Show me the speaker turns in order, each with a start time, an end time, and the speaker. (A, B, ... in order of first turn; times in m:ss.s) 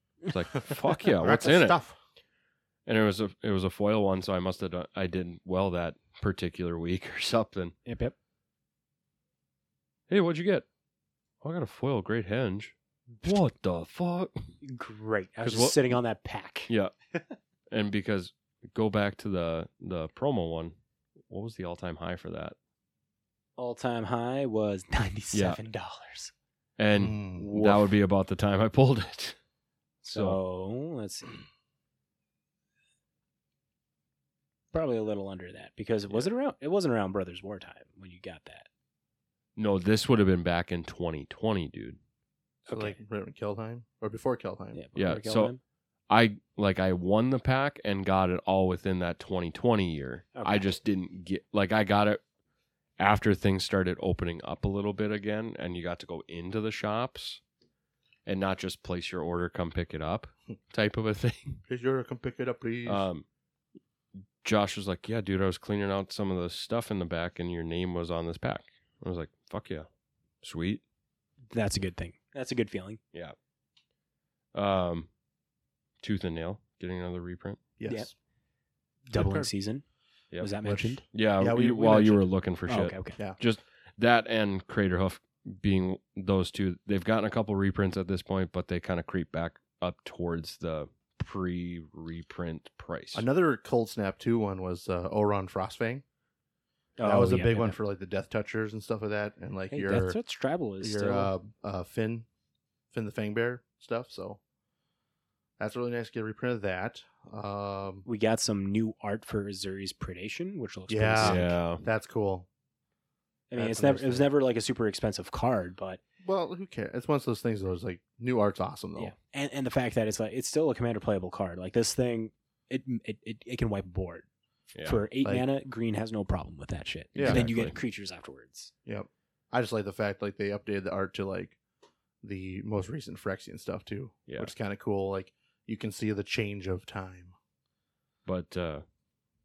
0:00.2-0:01.8 A
0:01.2-0:02.0 B
0:02.8-0:07.7 A
0:07.8-0:08.1 C
0:10.1-0:10.6 A
0:11.4-0:14.4 A
0:14.6-0:17.2 C
0:15.4-0:16.0 A
0:17.7-0:20.7 A
0:21.3-0:22.5 A
0:23.6-0:26.3 C
0:25.3-0:25.6 A
0:26.8-0:29.4 A
0:26.9-0:27.5 B
0:27.4-0:27.9 C
0:30.0-0:31.4 C
0:30.1-0:30.4 A
0:34.7-0:38.7 C
0:39.6-0:42.0 A
0:42.7-0:43.0 C
0:42.7-0:44.8 B
0:44.7-0:45.6 C
0:45.0-0:45.5 A
0:46.1-0:52.2 A
0:50.3-0:50.7 C
0:53.0-0:57.4 A
0:58.2-1:01.6 A
1:01.7-1:03.0 B
1:02.8-1:03.2 A
1:04.4-1:09.9 A
1:10.4-1:10.8 A
1:11.5-1:13.0 C
1:14.5-1:15.1 A
1:16.0-1:17.6 A
1:17.8-1:18.1 B
1:19.1-1:19.8 C
1:19.1-1:19.5 B
1:20.4-1:21.0 C
1:20.6-1:22.2 B
1:21.1-1:33.2 A
1:22.7-1:23.2 C
1:33.1-1:36.0 B
1:37.0-1:37.8 C
1:37.0-1:40.2 B
1:39.7-1:41.3 C
1:40.8-1:42.2 B
1:42.9-1:44.4 B
1:45.6-1:48.0 B
1:48.0-1:51.6 C
1:50.9-1:52.5 B
1:51.2-1:51.8 A
1:53.5-1:56.0 C
1:53.6-1:54.3 B
1:56.2-1:59.1 B
1:59.0-2:04.2 C
2:04.7-2:05.0 A
2:04.8-2:08.7 C
2:07.1-2:07.4 B
2:07.1-2:07.7 A
2:08.8-2:11.6 B
2:12.2-2:17.3 B
2:14.3-2:14.5 A
2:18.2-2:18.8 A